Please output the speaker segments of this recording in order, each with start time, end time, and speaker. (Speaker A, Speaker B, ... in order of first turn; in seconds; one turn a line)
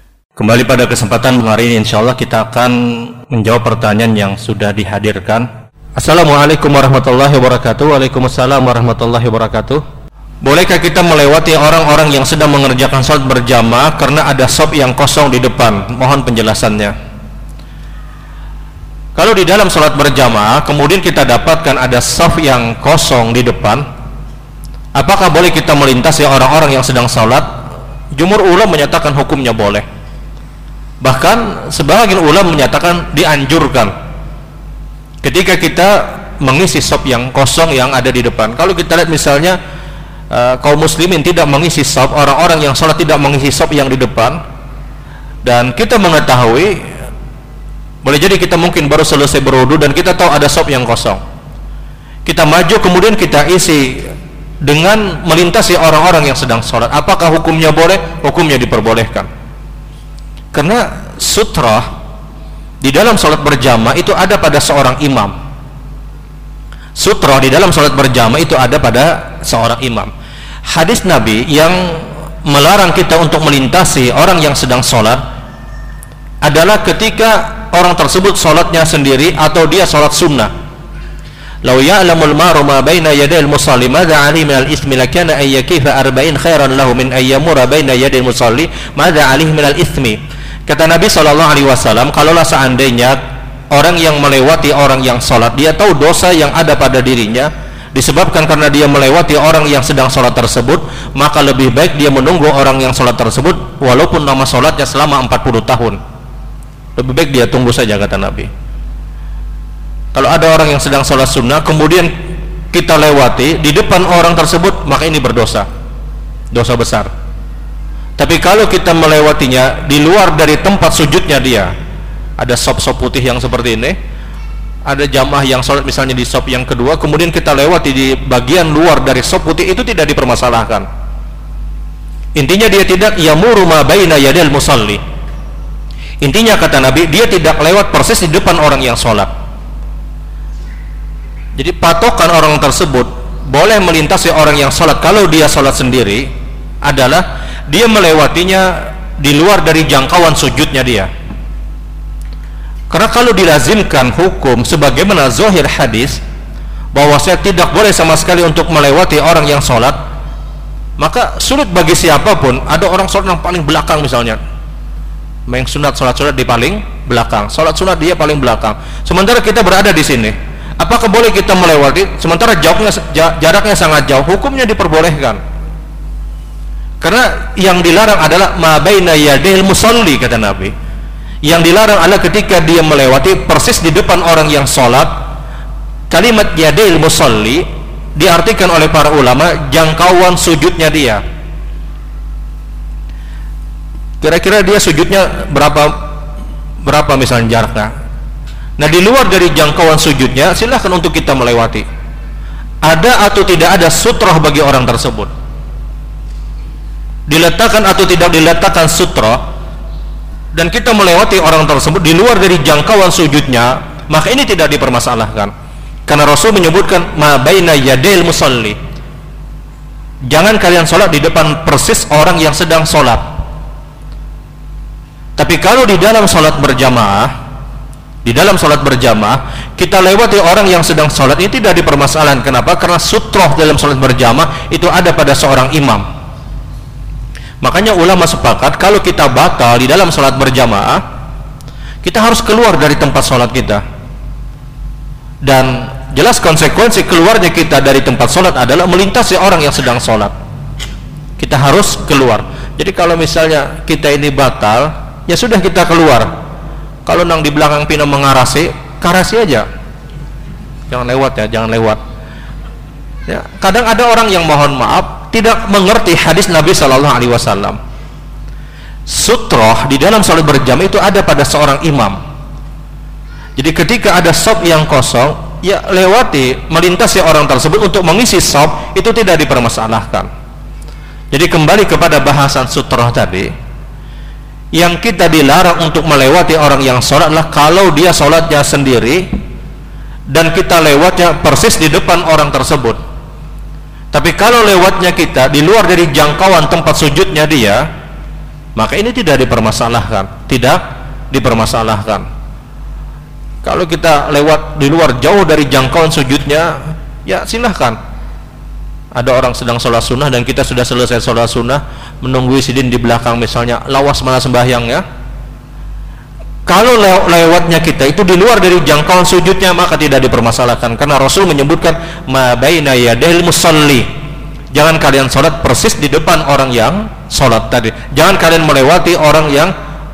Speaker A: 0.3-9.8
Speaker A: 10.4-16.9
Speaker A: 19.1-23.8
Speaker A: 24.9-27.5
Speaker A: 28.1-29.8
Speaker A: 31.0-33.9
Speaker A: 35.2-39.6
Speaker A: 40.3-44.4
Speaker A: 45.4-46.9
Speaker A: 48.0-51.2
Speaker A: 52.2-54.0
Speaker A: 54.6-59.3
Speaker A: 60.5-61.9
Speaker A: 62.8-65.3
Speaker A: 67.0-70.1
Speaker A: 70.7-75.2
Speaker A: 76.4-80.5
Speaker A: 81.6-93.2
Speaker A: 93.7-106.0
Speaker A: 107.0-108.5
Speaker A: 110.1-112.1
Speaker A: 112.7-115.7
Speaker A: 116.5-117.1
Speaker A: 118.2-121.7
Speaker A: 122.4-124.0
Speaker A: 124.8-130.9
Speaker A: 132.3-135.0
Speaker A: 136.2-139.3
Speaker A: 141.6-146.3
Speaker A: 146.8-151.1
Speaker A: 152.9-156.2
Speaker A: 156.9-160.0
Speaker A: 161.0-164.4
Speaker A: 165.5-175.4
Speaker A: 177.0-180.7
Speaker A: 181.4-185.2
Speaker A: 186.1-187.6
Speaker A: 188.2-191.2
Speaker A: 194.2-195.9
Speaker A: 196.8-197.9
Speaker A: 198.8-201.8
Speaker A: 202.8-205.3
Speaker A: 207.3-209.4
Speaker A: 210.5-215.5
Speaker A: 216.1-218.8
Speaker A: 220.3-223.3
Speaker A: 225.4-227.3
Speaker A: 228.2-236.0
Speaker A: 237.6-241.0
Speaker A: 242.0-243.8
Speaker A: 245.4-250.3
Speaker A: 251.4-256.3
Speaker A: 257.1-259.6
Speaker A: 260.9-262.0
Speaker A: 263.3-267.8
Speaker A: 269.1-272.2
Speaker A: 273.6-280.3
Speaker A: 281.3-283.5
Speaker A: 284.7-289.2
Speaker A: 290.3-293.0
Speaker A: 294.1-297.9
Speaker A: 298.8-302.2
Speaker A: 303.6-308.0
Speaker A: 309.1-315.0
Speaker A: 316.7-324.1
Speaker A: 324.7-329.7